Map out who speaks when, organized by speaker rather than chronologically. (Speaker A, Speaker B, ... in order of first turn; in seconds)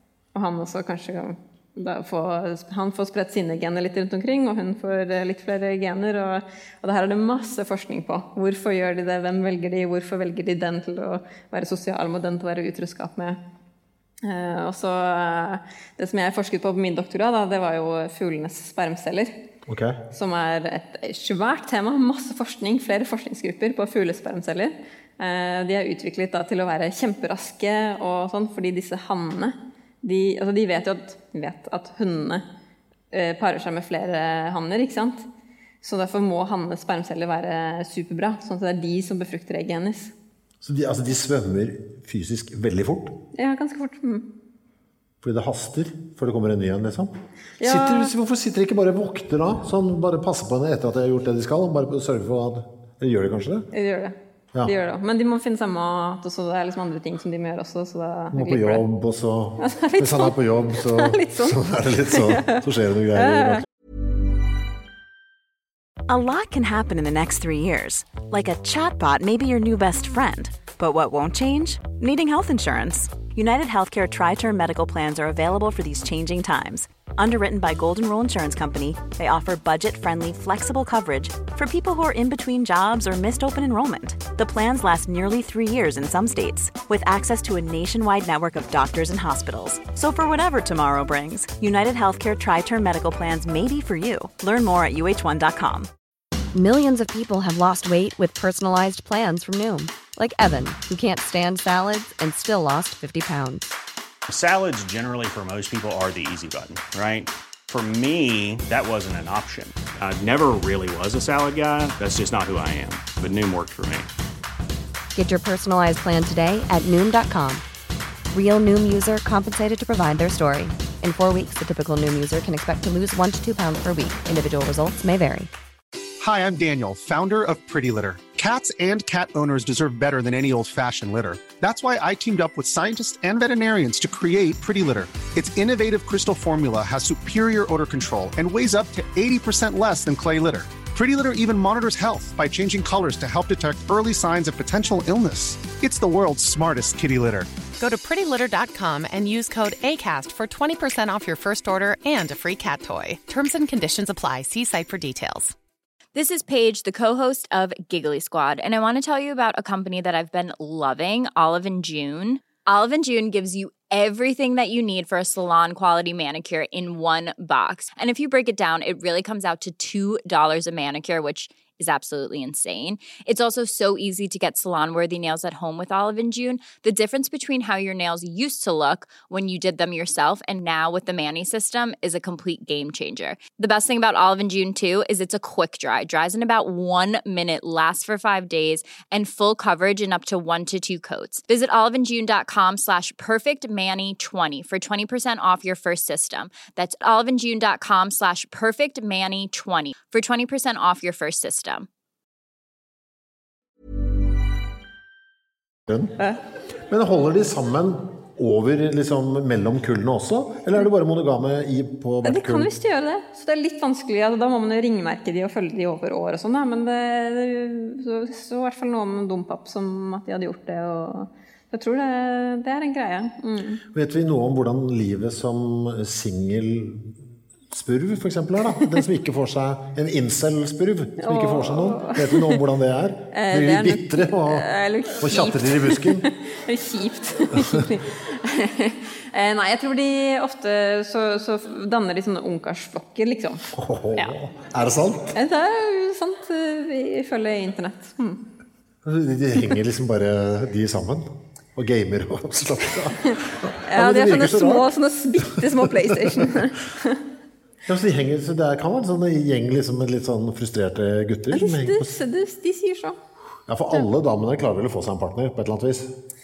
Speaker A: 0.3-13.4, 14.2-19.3, 20.1-32.4, 33.1-35.2, 35.8-40.1, 43.3-44.3, 47.6-48.1, 53.7-58.8, 59.6-62.6, 63.1-63.6, 212.2-223.8, 231.2-232.6, 233.3-244.3, 245.3-248.4, 253.9-257.2, 261.5-263.2
Speaker B: 19.6-20.0, 40.6-43.2, 45.2-53.7, 58.3-63.6, 205.9-206.2, 206.9-212.7, 223.9-227.2, 227.7-234.7, 235.2-236.3, 243.7-245.3, 249.0-256.5, 257.9-262.1, 263.7-266.1
Speaker C: 66.1-95.9
Speaker D: 96.5-103.7, 115.1-117.6, 118.3-125.5
Speaker E: 104.3-114.1
Speaker F: 126.2-147.5
Speaker G: 147.8-155.5
Speaker H: 156.1-201.9